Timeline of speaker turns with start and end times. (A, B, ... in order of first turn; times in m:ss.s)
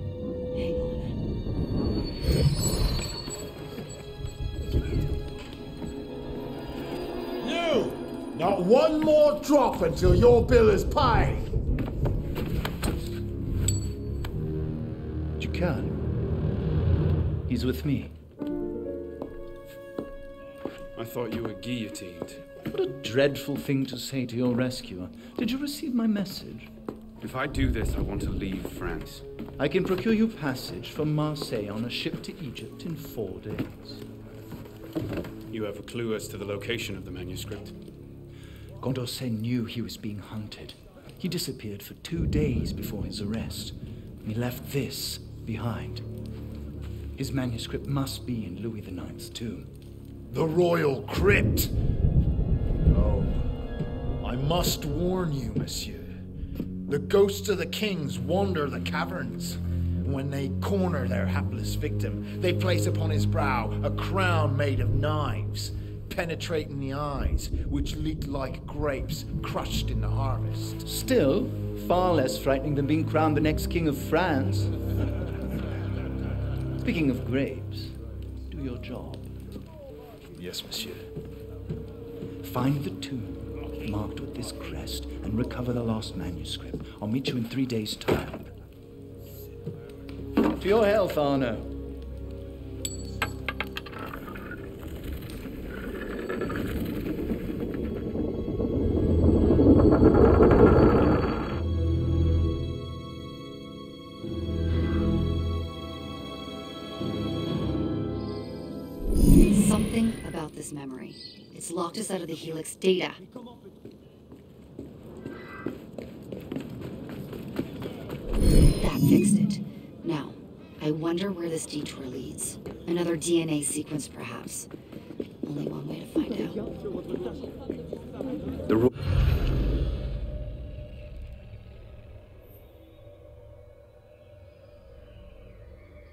0:00.5-0:01.2 A
0:07.4-0:11.5 B
0:15.4-0:16.0 C
0:17.5-0:18.2 C
0:21.0-0:22.4 D
0:22.7-0:26.7 C
0:27.2-0:29.3 D
0:29.6-0:34.0 C
0:35.5-0:37.7 D
0:38.8-0:46.0 C
0:47.2-0:49.7 C
0:50.3-0:51.7 B
0:52.9-0:53.3 B
0:54.2-0:56.2 B
0:56.9-1:10.8 B
1:10.8-1:14.7 C
1:16.8-1:18.0 C
1:18.5-1:19.3 C
1:20.4-1:21.0 C
1:22.4-1:28.5 C
1:30.4-1:31.7 C
1:49.3-1:53.2 A
1:58.8-2:04.7 A
2:05.4-2:06.6 A